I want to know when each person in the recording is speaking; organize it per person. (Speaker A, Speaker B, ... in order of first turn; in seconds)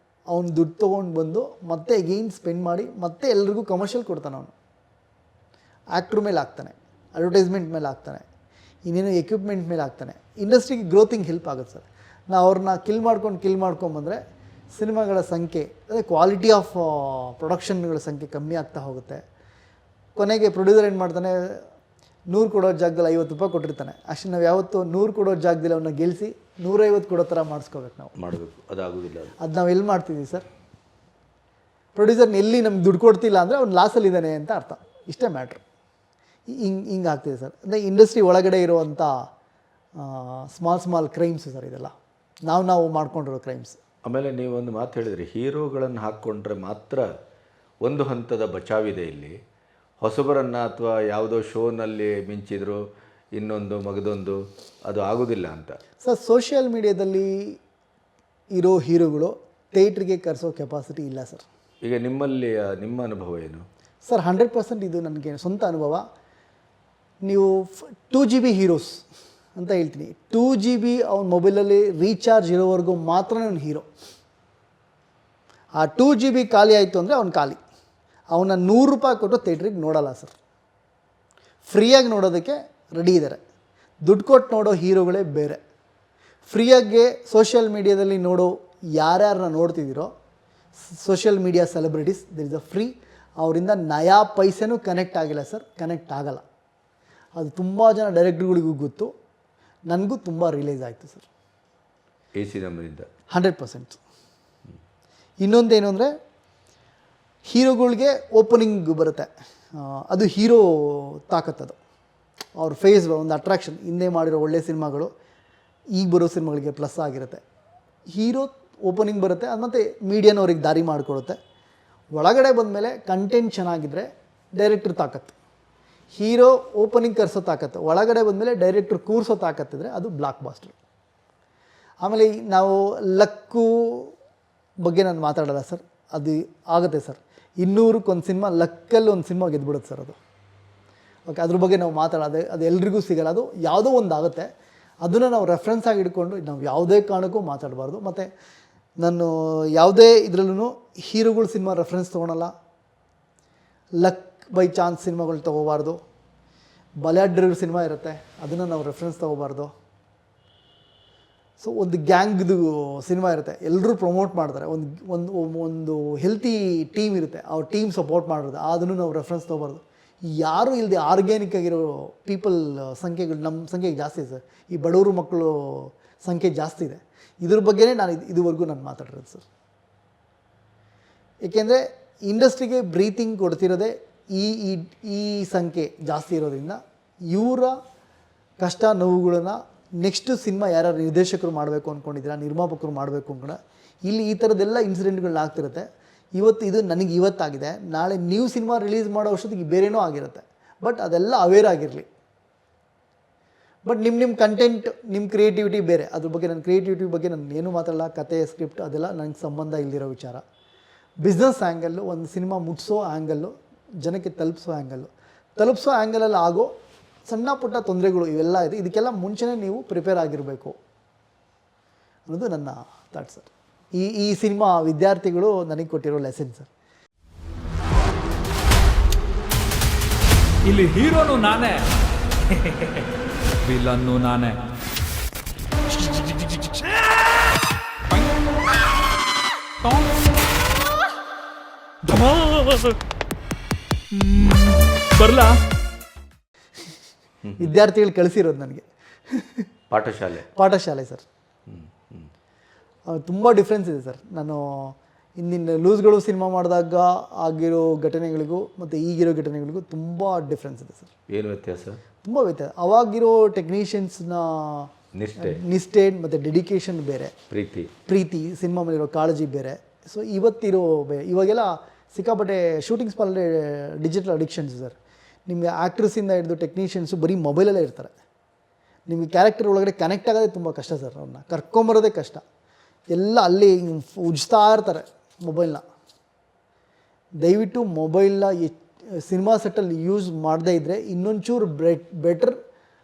Speaker A: 0.3-4.5, 5.9-8.2, 8.8-14.2, 14.7-19.2, 20.1-21.6, 22.3-28.1, 29.4-30.4, 31.9-35.6, 36.5-39.1, 40.0-41.9, 42.5-43.8, 56.0-57.6, 58.5-61.4, 64.0-66.0, 67.2-69.0, 69.6-73.9, 75.8-77.6, 78.3-80.3, 81.6-83.4, 84.0-85.6, 86.5-90.1, 90.8-96.4, 97.3-99.1, 99.9-101.2, 103.3-104.0, 105.4-106.1, 107.4-111.8, 112.5-115.1, 116.0-117.4, 118.1-121.4, 122.1-125.3, 126.1-130.8, 132.0-134.1, 134.8-140.2, 141.3-144.5, 145.0-148.3, 149.0-152.5, 154.0-156.0, 157.0-159.7, 161.6-179.4, 181.4-186.8, 187.3-187.8, 188.6-195.8, 196.3-202.1, 203.8-210.4, 211.2-213.5, 214.0-216.7, 217.3-220.8, 222.3-226.7, 247.6-249.7, 250.5-251.2, 253.1-261.1, 262.2-267.3, 268.1-274.9, 275.5-278.1, 279.1-282.4, 283.1-285.8, 287.4-292.6
Speaker B: 28.1-29.4, 44.0-47.1, 47.8-49.4, 50.0-52.8, 53.3-55.8, 61.8-63.6, 102.3-103.1, 249.9-250.5, 251.7-252.3, 261.3-262.0, 265.1-265.6, 267.5-267.9
Speaker C: 230.6-231.9, 232.6-233.0, 233.6-234.6, 235.9-237.0, 238.1-238.4, 239.8-240.2, 242.0-243.0, 244.1-245.6